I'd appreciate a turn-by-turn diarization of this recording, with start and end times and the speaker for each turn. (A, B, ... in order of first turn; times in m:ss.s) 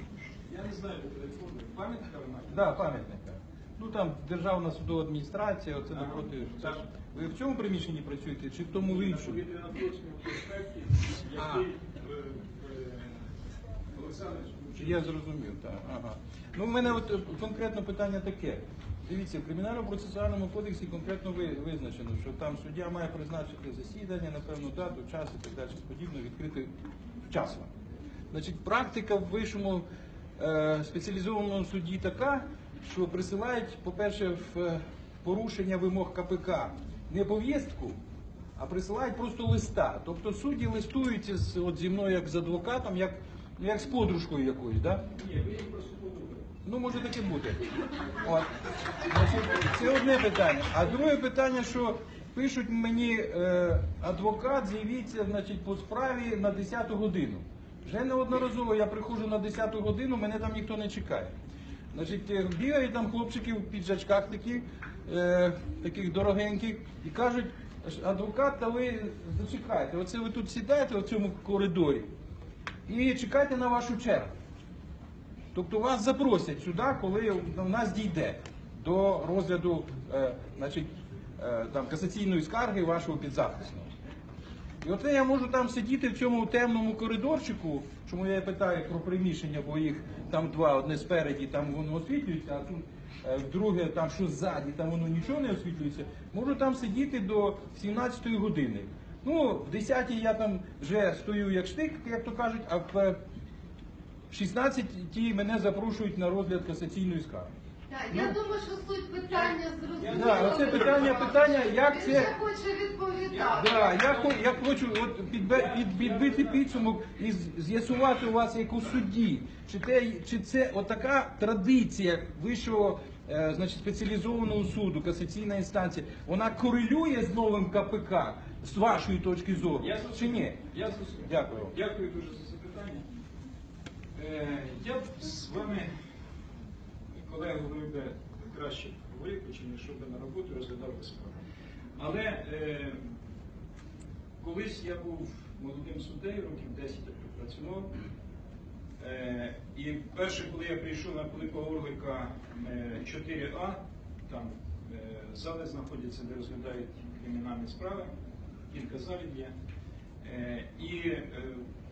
0:00.5-0:02.8 A
0:02.5-0:09.4 B
0:05.9-0:06.8 A
0:08.8-0:13.1 A
0:11.4-0:11.7 B
0:13.9-0:15.1 A
0:14.8-0:26.7 B
0:27.3-0:27.7 B
0:28.3-0:29.8 B
0:30.4-0:38.0 B
0:38.6-0:45.0 B
0:45.1-0:46.4 A
0:46.6-1:01.3 B
1:01.9-1:12.1 B
1:12.9-1:14.3 B
1:15.5-1:23.9 B
1:24.8-1:43.2 B
1:44.3-1:47.5 B
1:47.9-1:54.1 C
1:48.1-1:48.4 B
1:49.3-1:51.3 A
1:50.1-1:52.3 B
1:53.4-2:10.6 B
1:54.0-1:54.6 A
1:55.5-1:56.7 A
2:09.8-2:13.0 A
2:11.2-2:11.7 B
2:14.2-2:15.9 A
2:17.1-2:21.4 A
2:22.0-2:23.0 A
2:24.4-2:27.9 A
2:29.0-2:38.1 A
2:38.7-2:39.5 A
2:40.2-2:41.6 A